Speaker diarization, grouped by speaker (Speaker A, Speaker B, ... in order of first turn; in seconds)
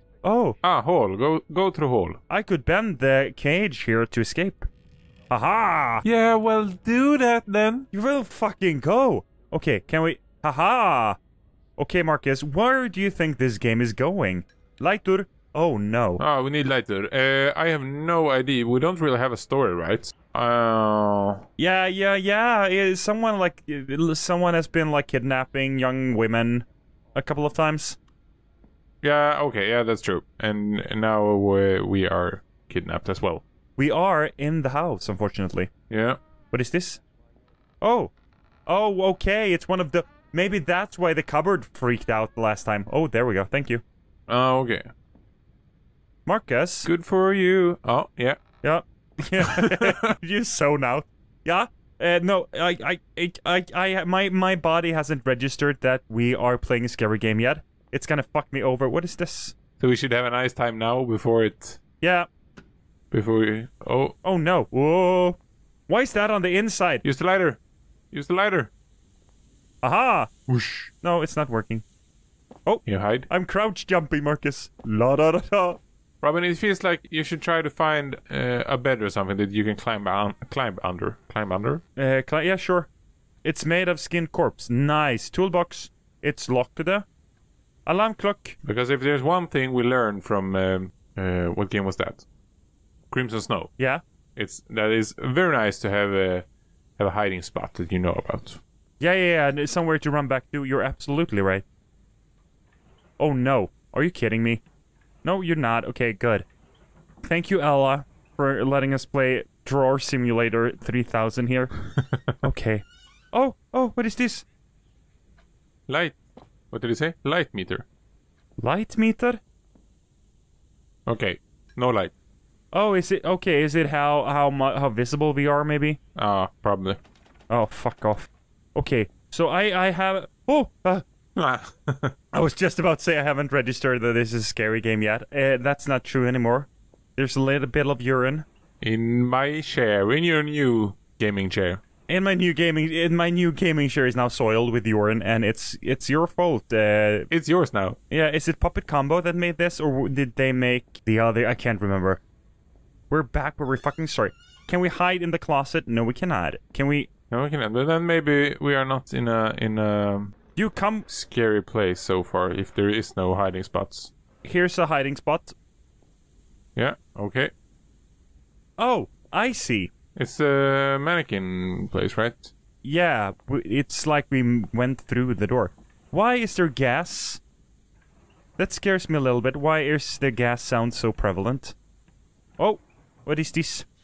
Speaker A: 0.2-0.6, 2.3-4.7, 5.3-6.0, 7.9-11.2, 11.8-16.2, 21.6-28.0, 33.8-35.7, 36.5-37.0, 37.8-38.1, 38.7-43.8, 46.2-46.9, 48.6-59.5, 62.0-62.3, 64.2-67.0, 69.8-71.8, 72.7-75.8, 82.0-82.9, 83.4-87.0, 87.8-88.6, 99.0-101.6, 103.2-104.6, 105.2-106.5, 107.2-111.7, 112.4-114.5, 118.6-119.4, 122.7-126.0, 127.5-131.0, 132.3-138.4, 142.1-147.3, 148.1-152.2, 153.1-157.1, 160.6-161.1, 164.4-165.6, 168.8-169.9, 172.8-177.4, 178.6-181.8, 182.6-183.9
Speaker B: 0.6-2.2, 6.0-7.9, 16.2-21.4, 29.0-33.4, 35.9-36.2, 44.3-44.9, 46.8-48.4, 49.4-50.1, 59.8-61.8, 63.1-64.1, 67.0-67.6, 68.1-68.7, 70.5-70.8, 72.8-73.3, 76.2-81.8, 88.6-92.2, 93.1-93.7, 94.3-96.5, 97.0-98.6, 115.9-116.2, 116.7-117.8, 121.1-122.1, 126.2-127.0, 131.3-132.1, 138.8-141.8, 147.3-148.0, 157.3-160.3, 161.1-164.1, 166.8-167.5, 170.2-172.5